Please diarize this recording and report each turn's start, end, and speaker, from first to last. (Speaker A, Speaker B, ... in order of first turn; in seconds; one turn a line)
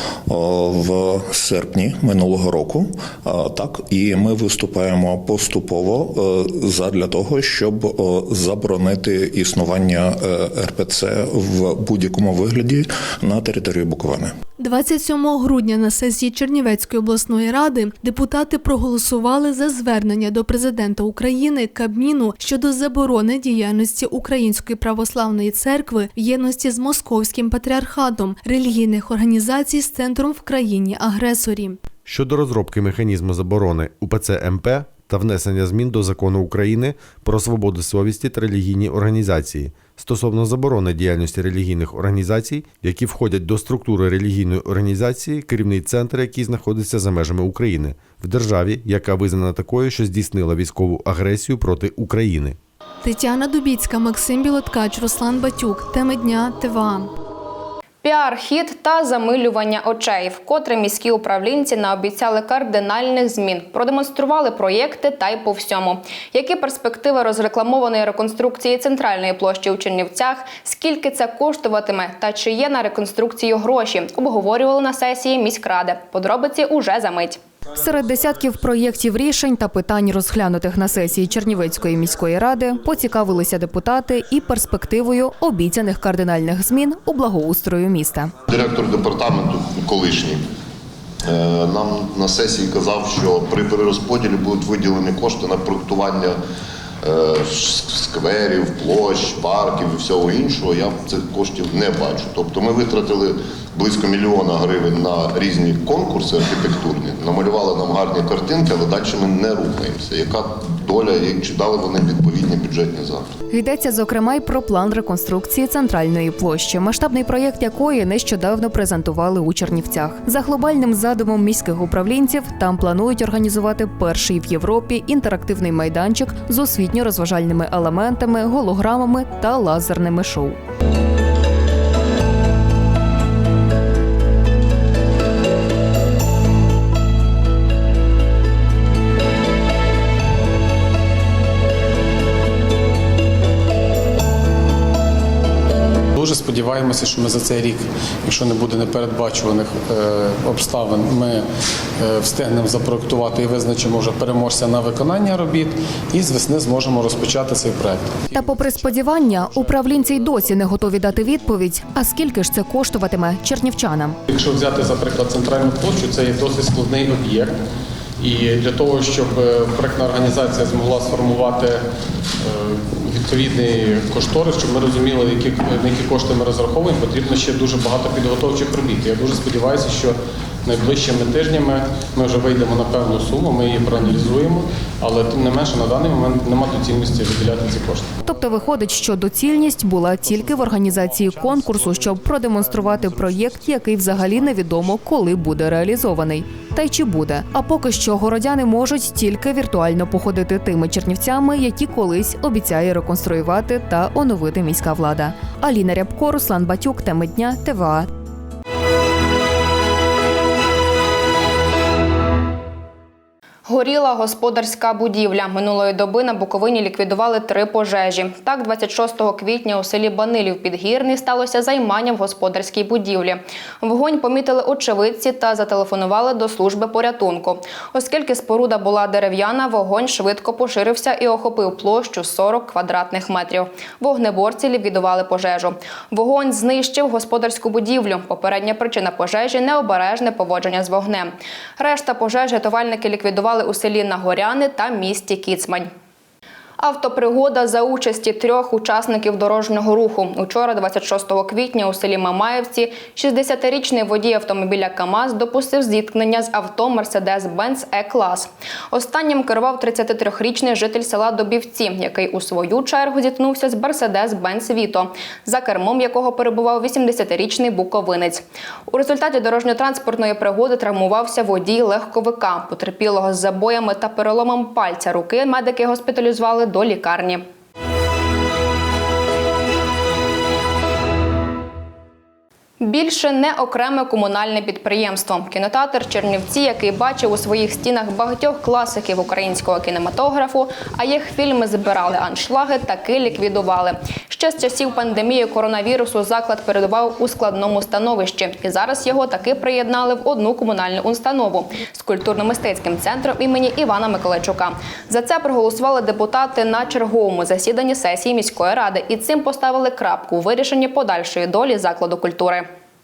Speaker A: 0.3-14.3
Speaker B: 14.6-31.8
Speaker C: 32.0-52.6
Speaker B: 53.0-57.1
Speaker D: 58.0-77.4
Speaker E: 77.7-88.3
Speaker F: 88.8-90.3
Speaker F: 91.4-96.3
Speaker F: 97.1-113.1
Speaker E: 113.5-130.6
Speaker G: 146.2-151.4
Speaker G: 152.0-160.6
Speaker E: 158.3-164.2
Speaker G: 164.3-167.6
Speaker G: 168.2-171.8
Speaker G: 172.4-188.4
Speaker E: 188.2-208.1
Speaker G: 190.2-194.9
Speaker D: 213.7-245.9
Speaker D: 246.8-277.4
Speaker D: 282.8-312.6